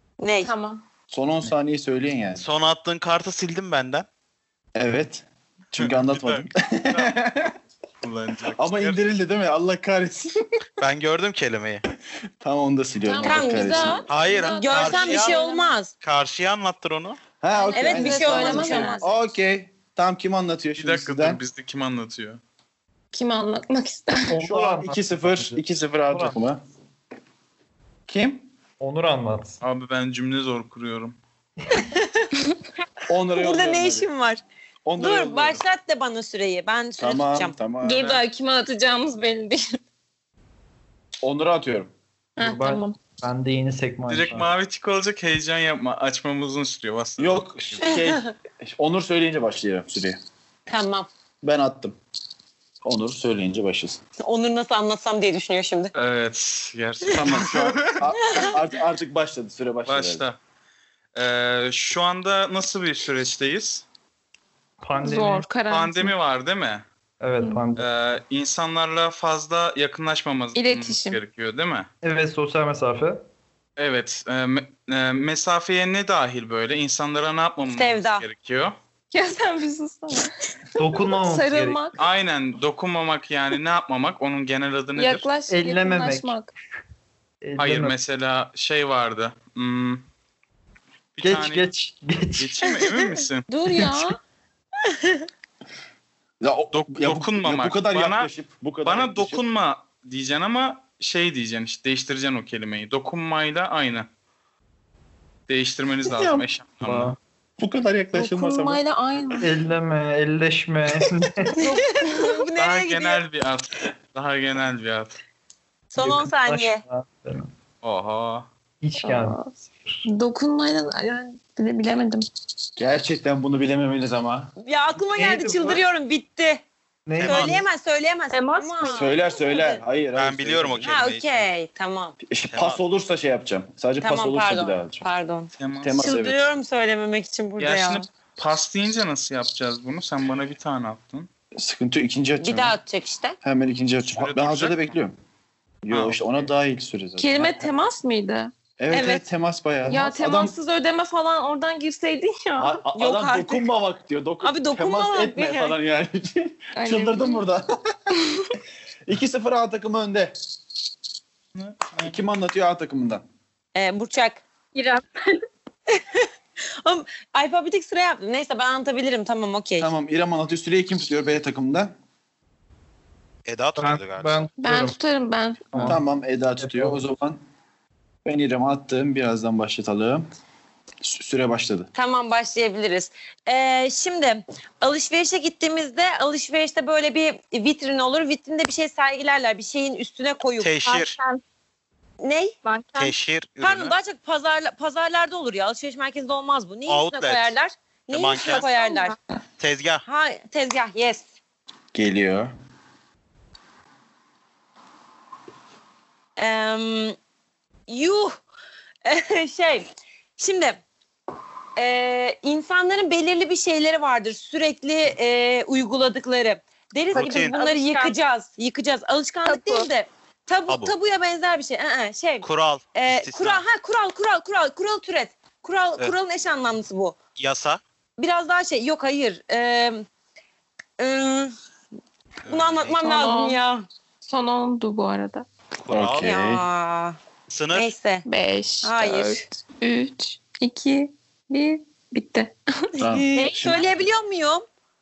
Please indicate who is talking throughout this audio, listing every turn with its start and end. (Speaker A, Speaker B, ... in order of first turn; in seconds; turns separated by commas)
Speaker A: 0.2-0.5, Speaker B: 0.4-0.8, Speaker C: 1.1-2.5, Speaker D: 2.4-4.1, Speaker C: 4.8-7.5, Speaker E: 5.8-7.2, Speaker E: 8.0-9.0, Speaker C: 8.6-10.3, Speaker D: 10.8-11.8, Speaker C: 12.4-14.0, Speaker B: 13.0-15.7, Speaker A: 13.2-13.8, Speaker D: 14.1-17.2, Speaker A: 14.4-15.9, Speaker C: 17.4-21.4, Speaker B: 17.6-19.1, Speaker A: 17.7-19.0, Speaker E: 20.8-22.4, Speaker B: 23.1-24.4, Speaker F: 24.3-26.4, Speaker C: 24.4-26.6, Speaker C: 28.1-28.5, Speaker F: 28.8-29.6, Speaker E: 29.6-31.2, Speaker A: 31.8-32.3, Speaker C: 33.1-34.1, Speaker A: 33.4-34.4, Speaker C: 34.9-35.6, Speaker A: 35.0-37.6, Speaker C: 37.0-38.2, Speaker B: 37.8-39.6, Speaker C: 41.2-41.9, Speaker B: 42.4-43.0, Speaker F: 42.4-44.5, Speaker E: 44.1-47.9, Speaker C: 47.2-50.2, Speaker A: 47.8-48.3, Speaker A: 50.7-51.1, Speaker C: 51.4-52.0, Speaker C: 52.8-54.0, Speaker A: 54.2-55.9, Speaker E: 56.0-58.0, Speaker C: 57.1-60.2, Speaker A: 58.2-58.6, Speaker E: 59.9-60.4, Speaker E: 61.1-63.9, Speaker F: 64.8-65.5, Speaker B: 65.0-66.1, Speaker E: 65.7-66.9, Speaker F: 67.2-67.9, Speaker E: 67.8-71.9, Speaker B: 70.5-71.2, Speaker F: 72.0-73.2, Speaker E: 73.8-78.8, Speaker A: 77.7-78.2, Speaker B: 79.1-80.3, Speaker F: 80.8-81.8, Speaker B: 80.9-82.0, Speaker E: 82.0-85.3, Speaker B: 85.0-86.5, Speaker F: 85.5-86.4, Speaker F: 87.4-88.0, Speaker E: 87.6-90.0, Speaker E: 91.2-91.7, Speaker F: 91.2-92.6, Speaker E: 92.4-93.5, Speaker A: 92.8-93.1, Speaker B: 93.5-94.2, Speaker C: 96.4-99.4, Speaker E: 96.7-98.3, Speaker E: 98.8-104.1, Speaker E: 105.5-107.2, Speaker C: 106.1-106.5, Speaker F: 106.8-107.2, Speaker C: 107.6-108.8, Speaker B: 108.1-109.6, Speaker F: 109.4-111.7, Speaker A: 111.6-113.2, Speaker B: 112.1-112.4, Speaker E: 112.6-115.2, Speaker A: 115.9-116.8, Speaker F: 116.0-117.5, Speaker E: 117.8-118.5, Speaker F: 118.8-120.0, Speaker B: 119.0-122.3, Speaker C: 122.8-124.5, Speaker A: 124.6-126.6, Speaker F: 125.1-125.8, Speaker F: 127.1-127.6, Speaker D: 127.2-127.6, Speaker A: 127.2-129.8, Speaker G: 128.3-129.1, Speaker C: 128.9-130.9, Speaker D: 130.2-131.5, Speaker A: 130.8-132.2, Speaker C: 132.2-135.1, Speaker D: 132.5-132.8, Speaker A: 134.0-138.1, Speaker E: 135.6-136.0, Speaker C: 135.8-136.4, Speaker E: 137.6-141.3, Speaker C: 141.6-142.8, Speaker A: 142.4-143.4, Speaker C: 143.4-145.2, Speaker E: 144.1-144.9, Speaker C: 145.8-147.7, Speaker E: 145.9-146.5, Speaker B: 147.2-148.5, Speaker C: 148.8-150.6, Speaker A: 148.9-149.2, Speaker B: 149.9-152.8, Speaker C: 152.6-157.7, Speaker A: 152.9-153.7, Speaker A: 154.4-155.8, Speaker B: 156.8-157.4, Speaker C: 159.1-160.3, Speaker E: 161.6-162.2, Speaker C: 162.0-163.2, Speaker A: 163.8-164.4, Speaker G: 164.8-165.4, Speaker A: 165.9-166.3, Speaker A: 166.8-169.9, Speaker C: 169.8-171.9, Speaker D: 173.5-174.5, Speaker F: 173.8-175.0, Speaker B: 174.6-175.9, Speaker F: 175.7-176.0, Speaker C: 175.8-177.4, Speaker F: 176.6-177.0, Speaker C: 178.2-180.3, Speaker C: 181.0-181.9, Speaker A: 181.9-190.7, Speaker D: 190.6-191.2, Speaker G: 190.8-191.4, Speaker A: 192.2-192.6, Speaker G: 192.7-193.1, Speaker D: 193.0-194.0, Speaker A: 193.6-199.2, Speaker D: 196.9-197.5, Speaker D: 198.1-198.7, Speaker G: 198.4-199.2, Speaker D: 199.6-200.0, Speaker A: 200.1-201.3, Speaker C: 201.9-202.5, Speaker A: 206.4-207.2, Speaker A: 207.9-208.4, Speaker A: 209.1-210.8, Speaker A: 211.8-227.2, Speaker D: 217.1-217.6, Speaker G: 217.1-218.2, Speaker G: 219.5-219.9, Speaker D: 220.7-220.9, Speaker D: 222.4-223.6, Speaker D: 227.4-227.8, Speaker A: 228.2-230.1, Speaker A: 231.0-231.5, Speaker A: 232.5-233.8, Speaker D: 232.5-233.0, Speaker B: 233.0-233.6, Speaker B: 234.2-235.5, Speaker D: 235.8-236.4, Speaker C: 235.9-236.7, Speaker A: 236.2-237.2, Speaker D: 237.5-237.9, Speaker A: 237.7-238.3, Speaker B: 238.2-243.0, Speaker A: 238.8-239.4, Speaker C: 243.0-243.9, Speaker A: 243.0-244.7, Speaker G: 243.3-243.9